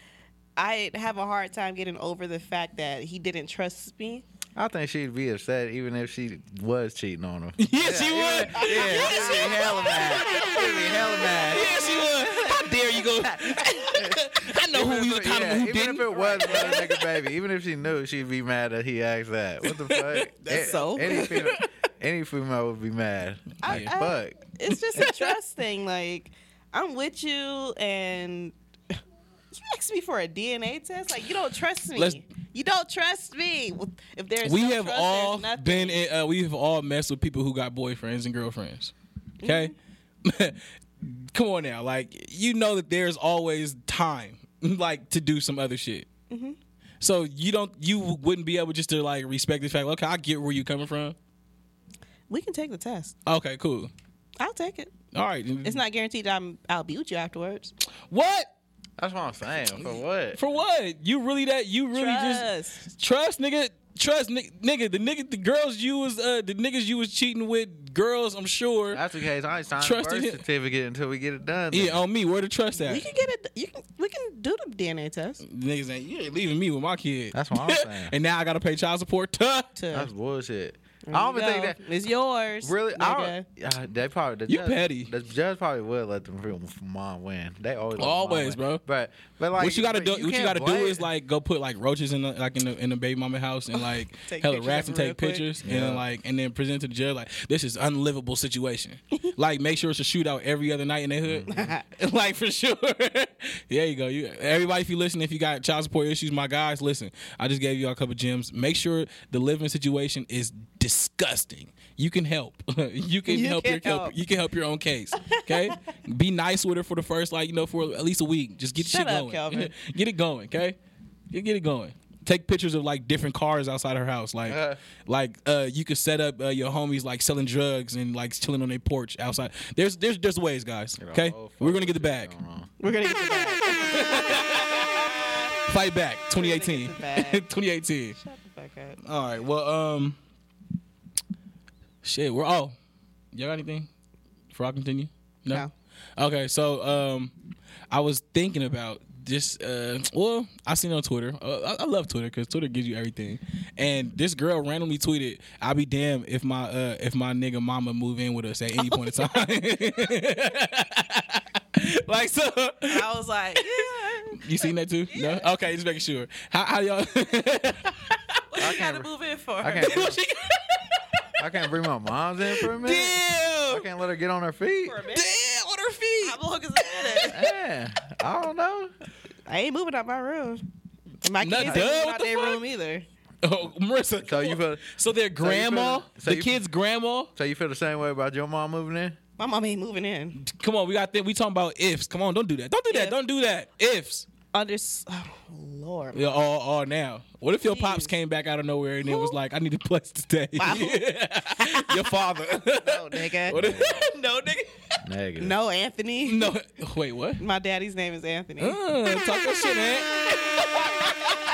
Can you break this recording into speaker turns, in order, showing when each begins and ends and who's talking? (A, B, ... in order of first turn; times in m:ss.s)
0:00.6-0:04.2 A
0:04.6-0:11.7 B
0:07.6-0:10.0 C
0:08.6-0:13.9 A
0:11.5-0:16.8 C
0:14.7-0:24.5 B
0:16.1-0:17.0 A
0:19.6-0:21.4 C
0:20.4-0:21.6 A
0:23.6-0:23.9 C
0:23.6-0:28.5 A
0:24.7-0:25.3 C
0:29.5-0:36.0 A
0:31.9-0:32.2 C
0:34.4-0:39.7 C
0:39.4-0:39.7 A
0:40.2-0:46.1 C
0:46.3-0:46.6 A
0:47.0-0:51.2 C
0:52.3-0:53.1 A
0:53.2-0:53.9 C
0:54.4-0:54.9 A
0:55.1-0:55.8 C
0:55.6-0:57.7 A
0:58.1-0:58.5 C
0:59.0-1:00.4 B
0:59.8-1:09.0 C
1:01.9-1:02.9 A
1:08.9-1:12.0 B
1:09.8-1:10.4 C
1:11.7-1:13.0 C
1:12.8-1:15.4 A
1:15.4-1:19.7 C
1:17.3-1:18.1 B
1:19.8-1:20.1 A
1:19.9-1:21.8 B
1:21.1-1:23.4 A
1:22.6-1:31.1 B
1:24.5-1:25.1 C
1:28.0-1:28.8 C
1:29.6-2:00.8 C
1:33.7-1:35.4 A
1:35.6-1:36.0 B
1:41.2-1:41.7 B
1:41.5-1:41.8 A
1:53.3-1:54.1 A
1:55.2-1:55.8 A
1:58.8-1:59.7 A
2:01.3-2:12.3 C
2:04.4-2:04.8 B
2:11.0-2:12.7 B
2:12.8-2:15.5 A
2:14.0-2:14.6 C
2:15.7-2:18.2 C
2:16.3-2:17.4 A
2:18.2-2:19.0 A
2:19.0-2:20.2 C
2:22.0-2:22.7 C
2:23.3-2:23.9 C
2:24.5-2:25.6 C
2:26.2-2:27.3 C
2:27.9-2:43.0 C
2:38.8-2:39.4 A
2:42.9-2:45.4 A
2:44.4-2:48.1 C
2:48.5-2:50.2 A
2:48.6-2:49.1 B
2:49.6-2:50.2 B
2:49.8-2:50.5 C
2:51.4-2:55.0 B
2:52.5-2:53.8 C
2:54.8-2:55.3 A
2:55.1-2:57.4 C
2:56.2-2:57.4 A
2:57.2-2:58.9 B
2:59.5-3:00.6 A
3:01.2-3:03.0 A
3:01.4-3:02.6 C
3:01.6-3:01.9 B
3:03.4-3:07.3 C
3:04.2-3:06.6 B
3:07.3-3:09.2 B
3:09.4-3:10.4 A
3:10.3-3:14.2 C
3:12.9-3:13.2 A
3:14.5-3:16.2 A
3:16.1-3:24.6 C
3:17.6-3:18.1 A
3:19.0-3:19.3 A
3:20.6-3:22.0 A
3:22.7-3:24.0 A
3:23.5-3:24.0 B
3:25.0-3:25.6 B
3:25.4-3:26.5 A
3:26.2-3:27.4 C
3:27.4-3:28.8 A
3:28.6-3:31.1 C